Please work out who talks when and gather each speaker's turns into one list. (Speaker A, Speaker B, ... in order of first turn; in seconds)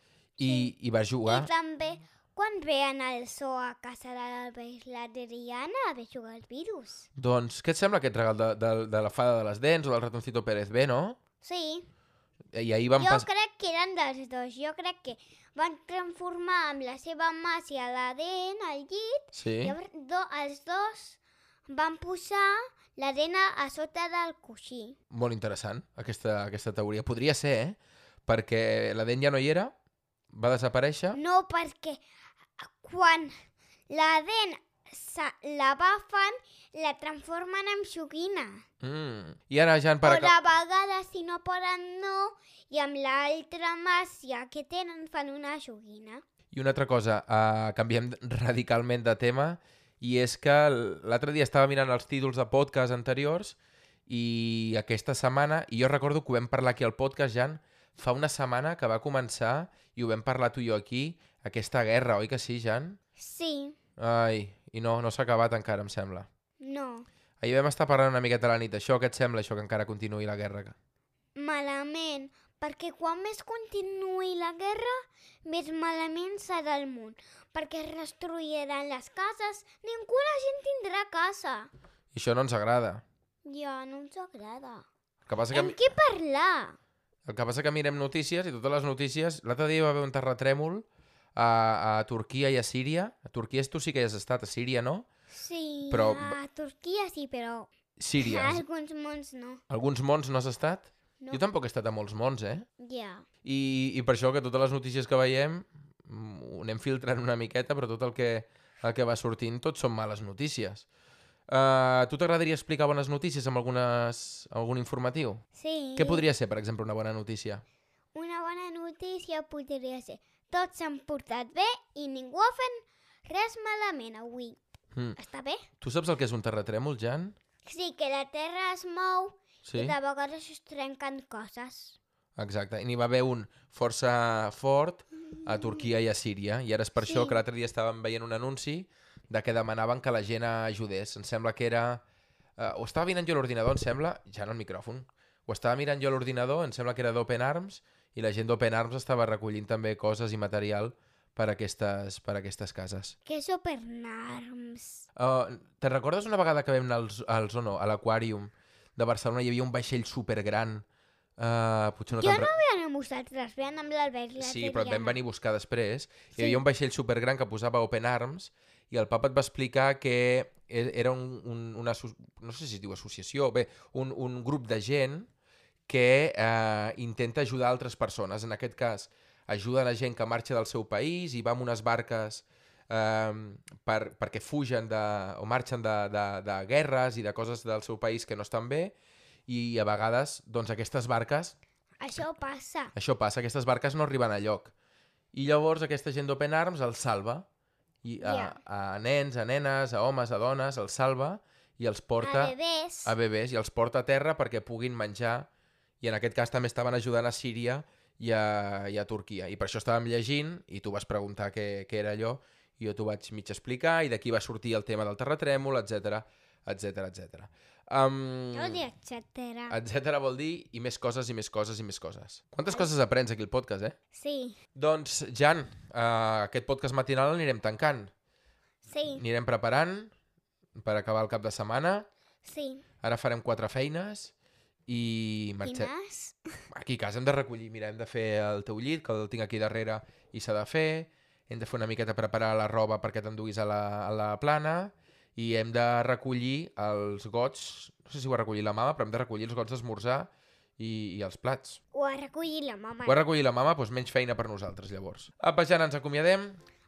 Speaker A: 0.4-0.7, 1.2-7.1, 11.4-11.9, 13.0-25.0, 31.1-32.0, 32.6-33.3, 33.9-38.6, 40.0-46.2, 63.2-63.8, 66.6-67.1, 71.3-81.7, 83.5-84.9, 85.5-86.8, 95.3-99.6, 102.8-103.2, 115.5-116.2, 118.1-124.6, 125.2-125.7, 127.6-132.0, 135.4-135.8, 137.0-137.4, 153.2-155.1, 162.1-165.2, 166.3-166.6, 192.0-192.9, 198.2-198.6, 202.2-203.1, 218.5-219.8, 224.1-224.6, 228.8-229.2, 232.4-232.8, 235.6-236.6, 251.9-253.2
Speaker B: 0.4-1.5, 7.2-11.2, 12.5-13.3, 19.3-19.7, 25.1-29.7, 30.3-31.2, 38.8-40.3, 46.5-63.0, 64.0-66.3, 67.4-70.8, 82.1-83.0, 85.3-85.8, 87.2-95.0, 95.9-96.4, 98.0-98.6, 99.7-102.7, 103.4-110.9, 111.5-115.4, 116.0-117.6, 125.8-127.4, 129.6-129.9, 132.4-142.0, 142.6-153.1, 155.1-160.8, 161.4-162.5, 164.4-175.3, 175.9-188.9, 189.5-191.6, 192.9-194.7, 195.3-197.5, 198.0-202.5, 203.0-205.5, 206.0-218.8, 219.7-223.9, 224.7-228.1, 229.1-230.1, 230.8-232.1, 233.0-234.3, 234.9-235.9, 236.7-251.8, 253.0-256.6